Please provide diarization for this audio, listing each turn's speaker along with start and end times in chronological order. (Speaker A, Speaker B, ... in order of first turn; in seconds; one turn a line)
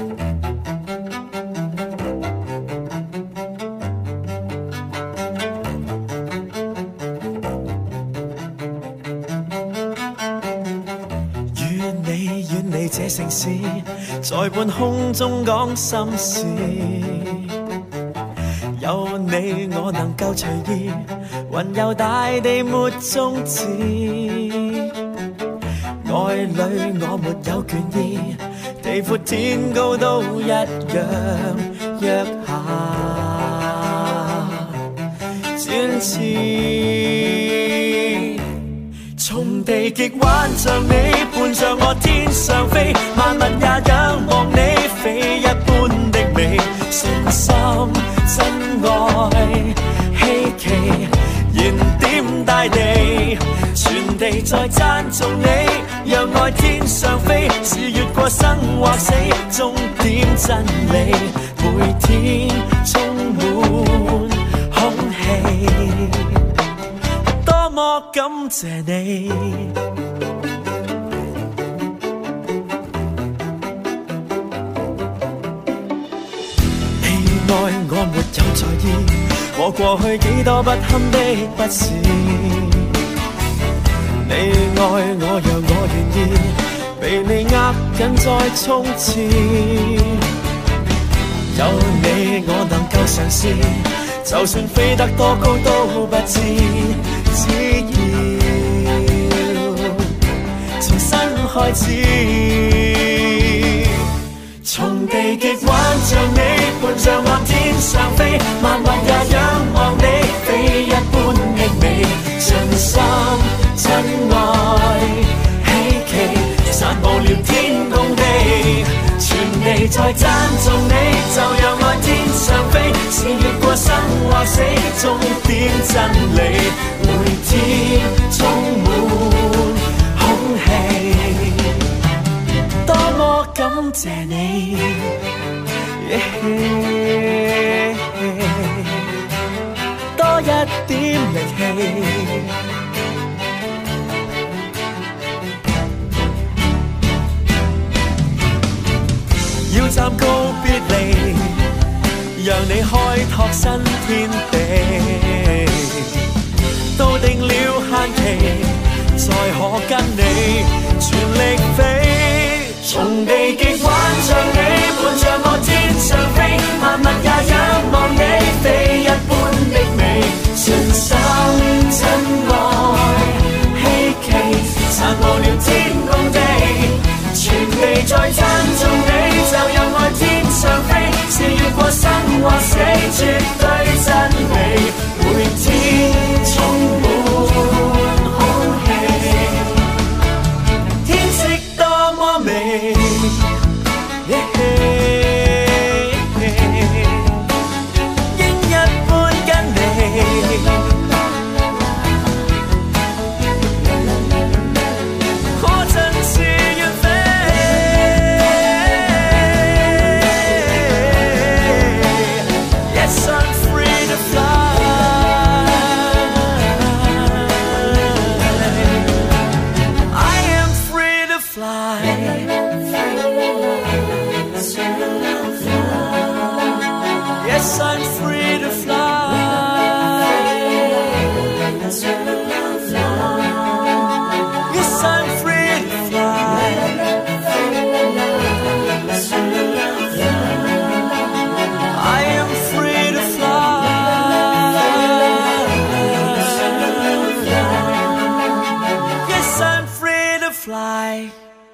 Speaker A: 11.5-17.4
Speaker A: 18.8-24.8
Speaker A: 26.0-34.6
Speaker A: 35.6-38.4
Speaker A: 39.2-66.2
Speaker A: 67.4-69.7
Speaker A: 77.0-82.9
Speaker A: 84.2-90.2
Speaker A: 91.5-100.0
Speaker A: 100.8-103.8
Speaker A: 104.6-131.7
Speaker A: 132.8-135.1
Speaker A: 136.0-138.9
Speaker A: 140.2-142.5
Speaker A: 149.7-151.6
Speaker A: 152.3-156.1
Speaker A: 156.9-189.7
Speaker A: 191.0-193.4
Speaker A: 194.2-197.3
Speaker A: 198.3-200.9
Speaker A: 205.6-212.3
Speaker A: 212.9-218.9
Speaker A: 220.1-222.5
Speaker A: 227.4-230.6
Speaker A: 234.7-237.0
Speaker A: 241.9-247.5
Speaker A: 249.2-251.3